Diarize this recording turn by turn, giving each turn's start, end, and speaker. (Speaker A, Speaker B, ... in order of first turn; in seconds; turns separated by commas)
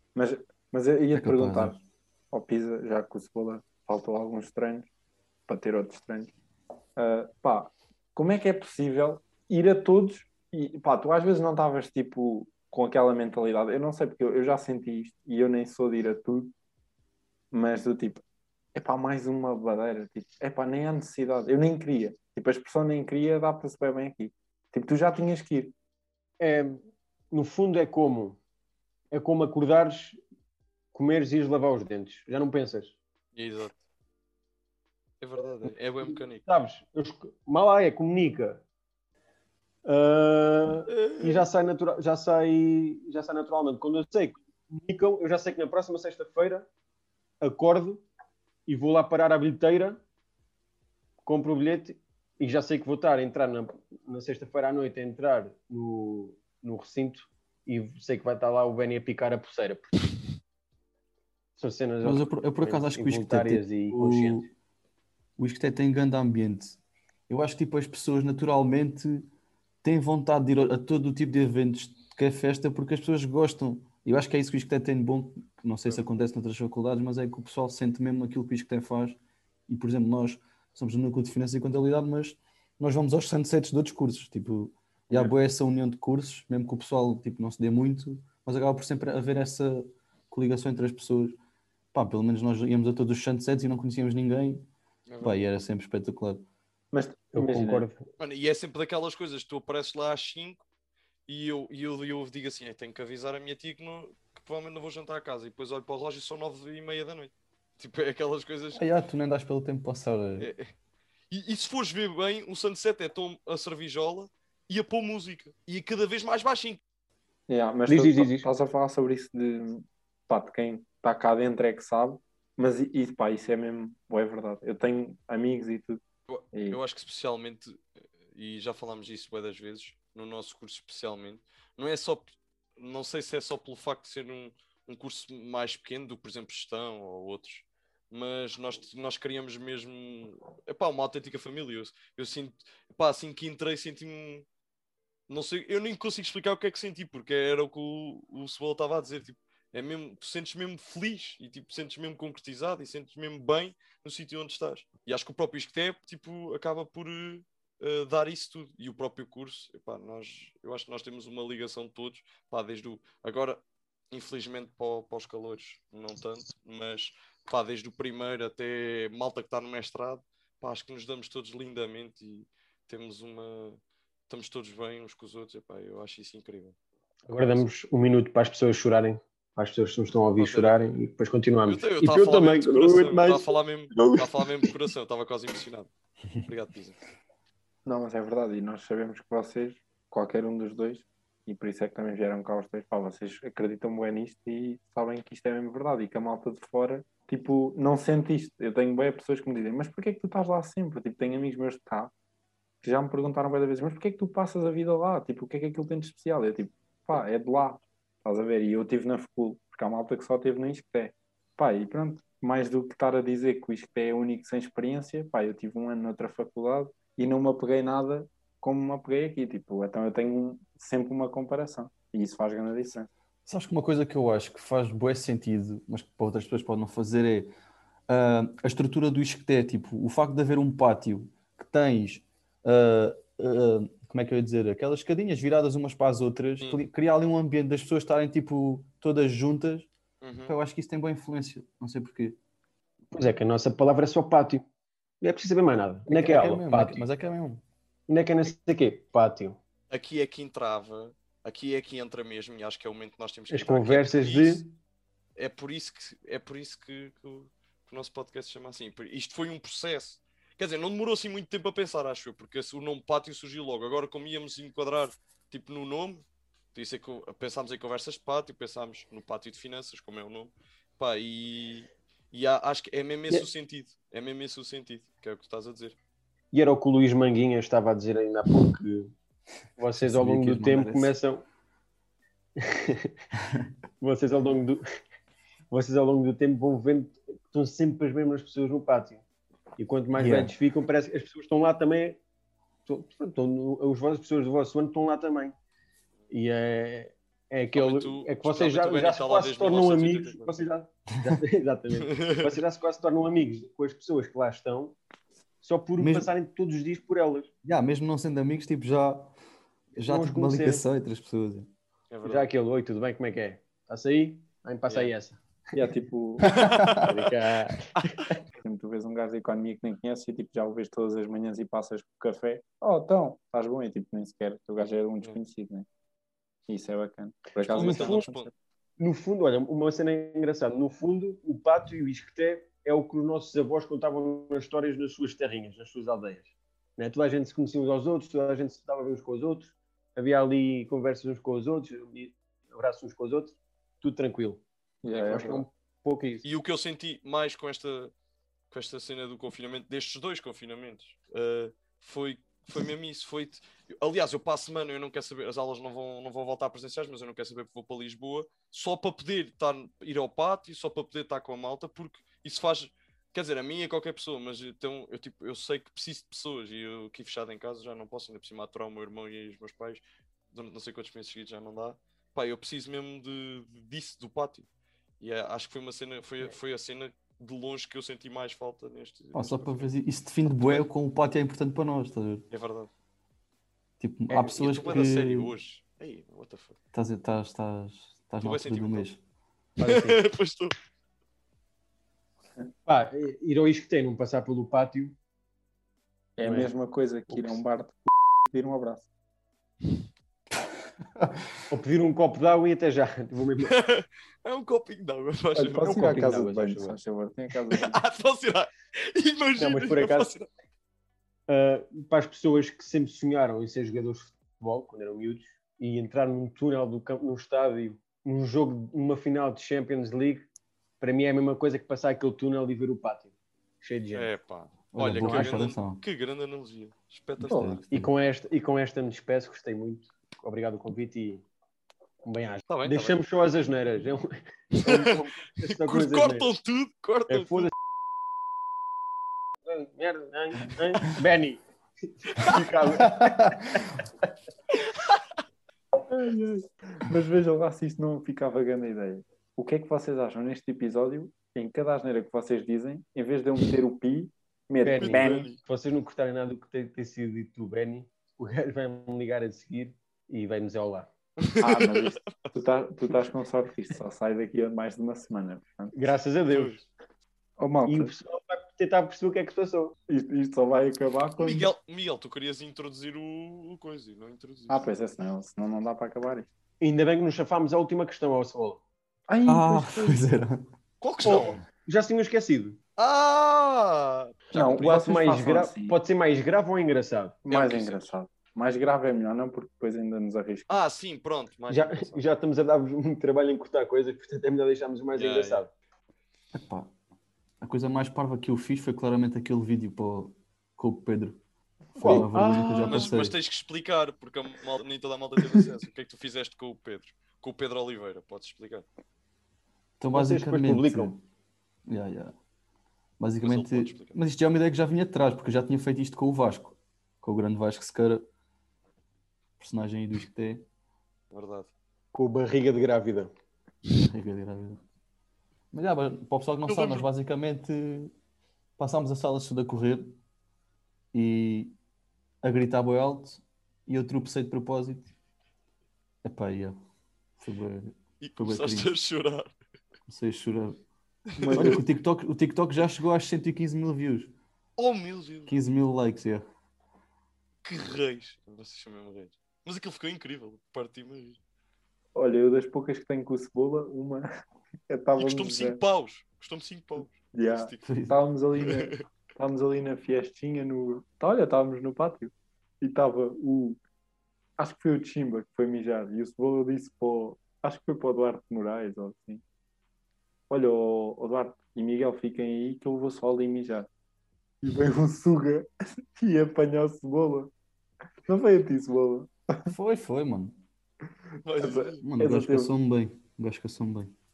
Speaker A: 0.1-1.8, Speaker B: 1.1-1.8, Speaker A: 2.3-4.9, Speaker A: 5.5-6.3, Speaker A: 7.0-16.5, Speaker A: 17.5-18.2, Speaker A: 18.8-25.7, Speaker C: 26.4-28.4, Speaker C: 29.1-30.2, Speaker C: 30.9-33.0, Speaker D: 33.4-33.8, Speaker D: 35.2-36.5, Speaker C: 36.1-38.6, Speaker C: 39.9-46.7, Speaker D: 40.9-41.5, Speaker C: 47.4-48.0, Speaker C: 48.7-50.0, Speaker C: 51.2-60.0, Speaker C: 61.6-64.5, Speaker B: 62.0-64.5, Speaker B: 65.4-69.3, Speaker B: 69.8-91.4, Speaker B: 91.9-94.7, Speaker D: 95.1-95.4, Speaker B: 95.2-96.4, Speaker A: 96.9-97.9, Speaker C: 97.3-98.0, Speaker D: 98.2-100.6, Speaker D: 101.3-108.8, Speaker B: 108.8-110.5, Speaker D: 110.4-110.7, Speaker D: 111.3-116.8, Speaker A: 117.5-126.0, Speaker C: 117.9-118.5, Speaker D: 126.3-127.8, Speaker A: 126.5-126.8, Speaker D: 128.3-144.5, Speaker D: 145.3-176.8, Speaker C: 177.3-184.7, Speaker D: 180.4-181.0, Speaker D: 181.7-185.9, Speaker D: 186.4-187.0, Speaker A: 187.8-202.1, Speaker A: 202.8-223.1, Speaker B: 223.5-227.5, Speaker B: 228.1-239.9, Speaker D: 240.2-240.6, Speaker B: 240.5-242.4, Speaker C: 243.1-244.6, Speaker C: 245.2-247.1, Speaker B: 246.1-247.6, Speaker C: 248.1-249.6, Speaker D: 249.9-254.6, Speaker C: 253.5-254.7, Speaker D: 255.4-276.0, Speaker C: 276.5-279.1, Speaker C: 279.8-281.4, Speaker B: 280.0-281.1, Speaker C: 282.6-283.2, Speaker C: 284.0-284.9, Speaker C: 285.7-289.2, Speaker C: 289.8-292.2, Speaker B: 290.1-290.5, Speaker C: 292.9-295.6, Speaker C: 296.3-305.0, Speaker D: 297.7-300.6, Speaker D: 302.0-302.6, Speaker C: 305.6-307.5, Speaker B: 306.0-306.3, Speaker B: 307.6-309.3, Speaker C: 310.0-310.9, Speaker B: 310.0-311.7, Speaker D: 312.1-312.5, Speaker C: 312.2-315.4, Speaker A: 315.8-316.7, Speaker B: 316.5-317.0, Speaker D: 316.5-317.1, Speaker C: 317.0-318.4, Speaker A: 318.6-325.9, Speaker A: 326.7-328.5, Speaker D: 327.6-328.5, Speaker C: 327.7-328.3, Speaker C: 329.0-346.4, Speaker A: 345.0-345.7, Speaker D: 346.4-348.1, Speaker D: 348.7-374.7, Speaker D: 375.2-379.9, Speaker B: 379.3-382.4, Speaker D: 380.5-380.9, Speaker D: 382.5-382.9, Speaker B: 384.0-385.5, Speaker D: 384.4-386.8, Speaker B: 386.9-389.2, Speaker D: 388.4-389.1, Speaker C: 389.8-390.2, Speaker D: 389.8-390.7, Speaker C: 392.9-395.1, Speaker A: 396.4-399.1, Speaker C: 396.4-396.7, Speaker C: 397.3-397.6, Speaker B: 401.2-401.4, Speaker C: 401.7-403.8, Speaker D: 403.7-406.1, Speaker A: 405.6-408.0, Speaker C: 405.8-407.0, Speaker D: 407.7-410.5, Speaker C: 409.6-410.3, Speaker C: 411.5-420.5, Speaker C: 421.0-424.3, Speaker D: 424.1-427.8, Speaker B: 424.9-426.0, Speaker C: 425.2-425.6, Speaker B: 427.4-428.1, Speaker A: 427.4-427.8, Speaker C: 427.9-431.4, Speaker C: 432.2-436.5, Speaker D: 432.7-433.2, Speaker D: 434.7-437.7, Speaker C: 437.3-437.7, Speaker C: 439.7-441.6, Speaker C: 442.2-443.8, Speaker B: 443.0-443.8, Speaker A: 446.1-455.5, Speaker C: 454.8-461.1, Speaker D: 455.0-455.6, Speaker D: 461.4-462.5, Speaker A: 461.6-465.9, Speaker C: 465.9-466.8, Speaker D: 466.5-466.8, Speaker A: 467.6-468.1, Speaker C: 467.9-469.9, Speaker A: 470.1-471.7, Speaker D: 471.4-474.9, Speaker A: 474.7-476.5, Speaker C: 476.8-478.8, Speaker A: 479.3-480.2, Speaker B: 479.5-480.6, Speaker D: 481.0-481.6, Speaker C: 481.2-482.8, Speaker D: 483.0-485.0, Speaker A: 484.5-486.0, Speaker C: 484.7-487.4, Speaker A: 487.5-490.8, Speaker D: 487.5-488.1, Speaker D: 490.7-492.2, Speaker C: 491.7-495.7, Speaker D: 495.1-495.6, Speaker B: 496.5-496.9, Speaker B: 497.6-501.4, Speaker C: 502.0-503.1, Speaker B: 502.0-503.4, Speaker D: 502.8-508.9, Speaker B: 510.0-511.2, Speaker C: 510.1-511.1, Speaker B: 511.9-512.3, Speaker B: 513.2-518.2, Speaker D: 513.4-514.2, Speaker B: 519.6-520.6, Speaker D: 521.3-521.7, Speaker C: 522.1-523.3, Speaker B: 524.0-524.8, Speaker B: 525.7-528.1, Speaker D: 526.7-527.1, Speaker B: 528.8-530.1, Speaker B: 531.1-531.7, Speaker B: 532.4-535.1, Speaker B: 536.2-536.8, Speaker B: 537.4-538.9, Speaker D: 538.2-539.5, Speaker B: 540.1-540.8, Speaker D: 541.3-541.8, Speaker A: 541.4-541.8, Speaker B: 541.5-544.3, Speaker D: 544.8-545.5, Speaker B: 545.5-546.4, Speaker D: 547.6-551.4, Speaker A: 552.1-554.3, Speaker A: 554.9-555.8, Speaker D: 555.2-557.8, Speaker A: 557.3-563.8, Speaker B: 557.8-558.2, Speaker D: 558.6-558.9, Speaker A: 564.6-569.4, Speaker A: 570.5-573.9, Speaker A: 574.6-577.5, Speaker A: 578.3-579.7, Speaker B: 579.7-580.6, Speaker D: 581.4-582.0, Speaker A: 581.6-582.7, Speaker B: 582.0-584.1